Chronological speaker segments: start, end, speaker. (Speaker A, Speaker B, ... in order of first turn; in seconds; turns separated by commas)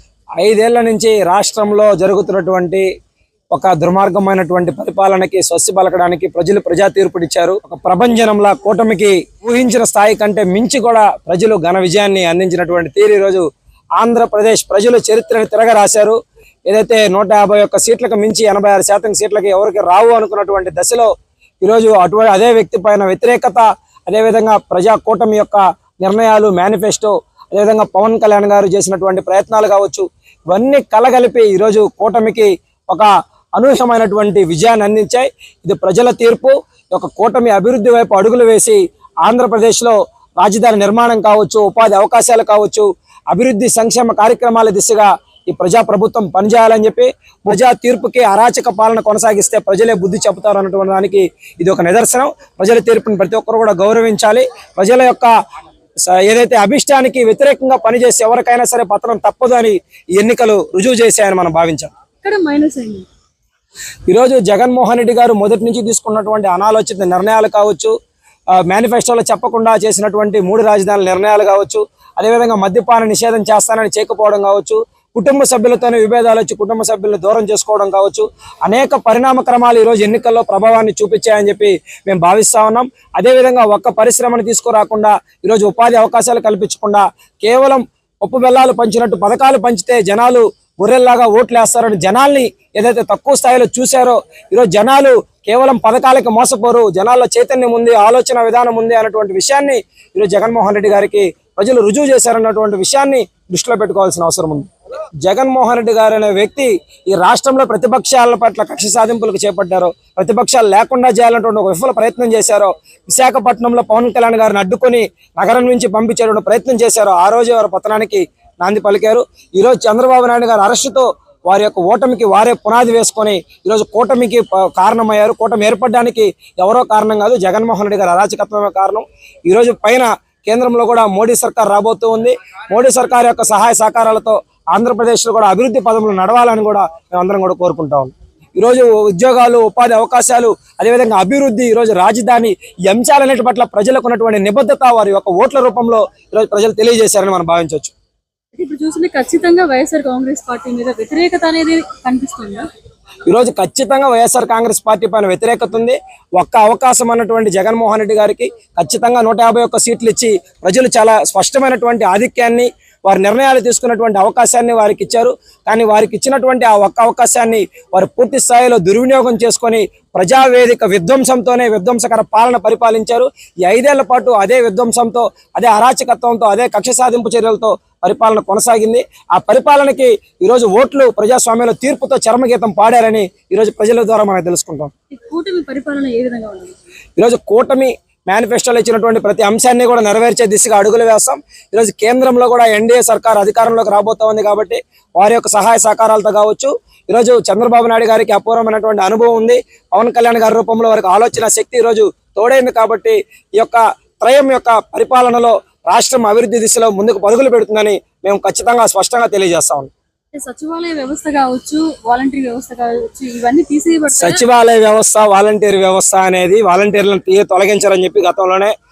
Speaker A: 0.4-2.9, Speaker A: 3.5-13.4, Speaker A: 14.0-55.3, Speaker A: 56.0-61.9, Speaker B: 62.2-63.1, Speaker A: 64.1-67.9, Speaker A: 68.5-104.7, Speaker A: 105.2-147.9, Speaker B: 148.6-152.7, Speaker A: 153.3-184.9, Speaker B: 185.1-186.7, Speaker A: 187.2-209.9, Speaker B: 210.3-214.4, Speaker A: 214.1-218.7